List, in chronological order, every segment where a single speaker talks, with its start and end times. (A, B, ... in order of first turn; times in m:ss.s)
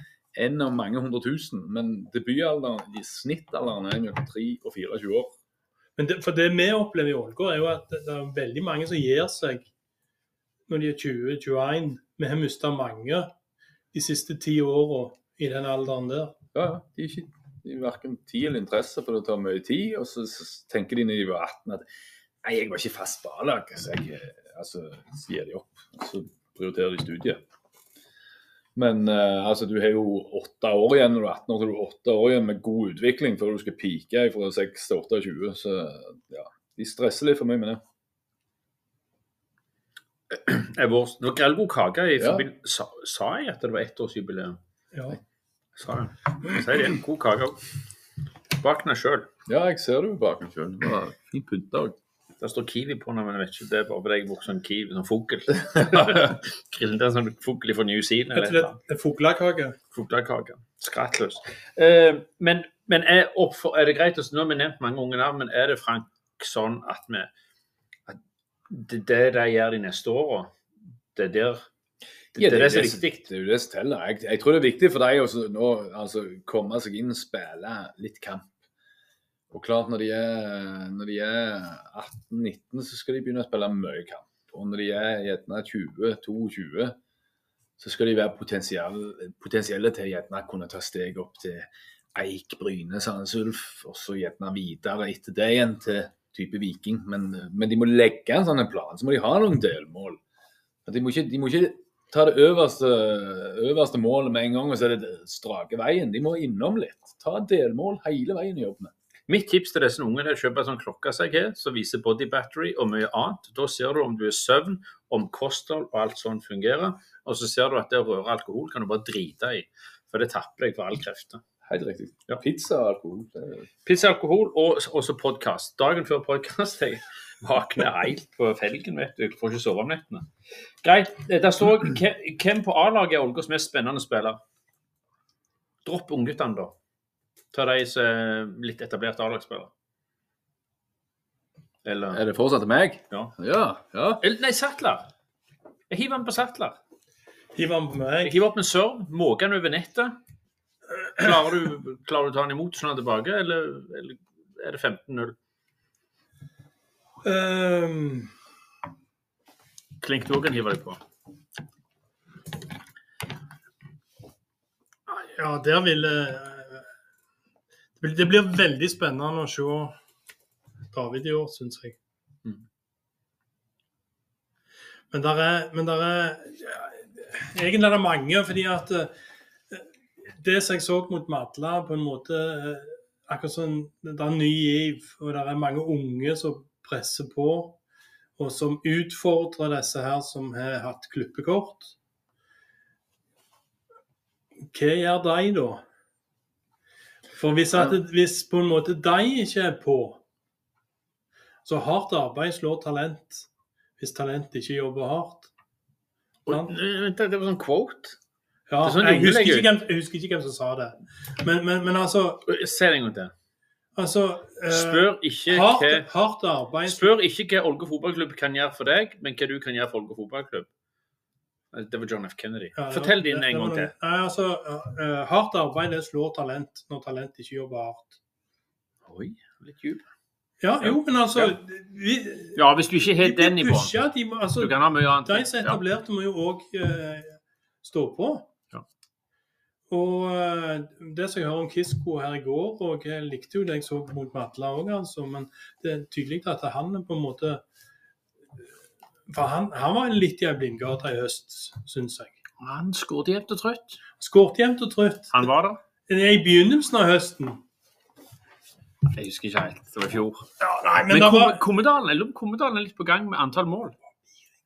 0:00.3-0:05.4 A
0:06.0-0:09.7 B
0:10.7-0:13.3 B
0:13.9-0:16.4 B
0:16.5-0:21.8 A
0:22.4-0:27.4 A
0:28.7-0:37.8 A
0:40.3-0:44.6 C
0:42.2-0:42.4 A
0:44.9-0:45.2 B
0:45.8-0:47.6 C
0:48.6-0:49.3 C
0:49.4-0:52.0 A
0:52.4-0:58.8 C
0:58.3-0:59.8 B
0:59.9-1:07.3 C
1:08.1-1:10.6 C
1:11.1-1:11.7 C
1:12.3-1:13.3 C
1:12.3-1:18.5 A
1:19.5-1:27.0 A
1:27.8-1:40.2 A
1:40.8-1:48.9 A
1:49.3-2:01.4 C
2:01.6-2:03.7 A
2:03.8-2:10.3 C
2:10.8-2:14.4 C
2:15.8-2:16.7 C
2:17.5-2:19.7 C
2:21.8-2:22.2 C
2:22.1-2:24.2 A
2:24.2-2:25.1 C
2:25.9-2:26.8 C
2:27.5-2:28.4 B
2:28.2-2:30.2 C
2:31.1-2:35.4 C
2:37.2-2:38.3 B
2:40.0-2:41.0 C
2:45.1-2:46.8 B
2:48.0-2:50.0 B
2:50.9-2:52.0 B
2:55.1-2:59.1 B
3:00.3-3:07.8 B
3:08.4-3:11.9 B
3:14.7-3:15.8 B
3:17.3-3:20.2 B
3:21.6-3:23.5 B
3:24.0-3:25.5 B
3:26.4-3:28.2 C
3:28.7-3:32.4 B
3:28.8-3:29.7 C
3:32.4-3:33.3 C
3:33.9-3:37.1 B
3:34.7-3:36.1 C
3:36.9-3:40.7 C
3:41.7-3:43.9 C
3:42.7-3:48.2 B
3:49.0-3:50.0 C
3:50.6-3:52.6 B
3:50.8-3:51.5 C
3:52.5-3:54.0 C
3:53.2-3:58.5 B
3:54.6-3:55.8 C
3:59.9-4:07.6 B
4:09.3-4:12.4 B
4:12.6-4:14.0 C
4:14.2-4:15.5 B
4:15.3-4:15.8 C
4:16.1-4:17.6 B
4:19.0-4:23.9 C
4:20.7-4:21.6 B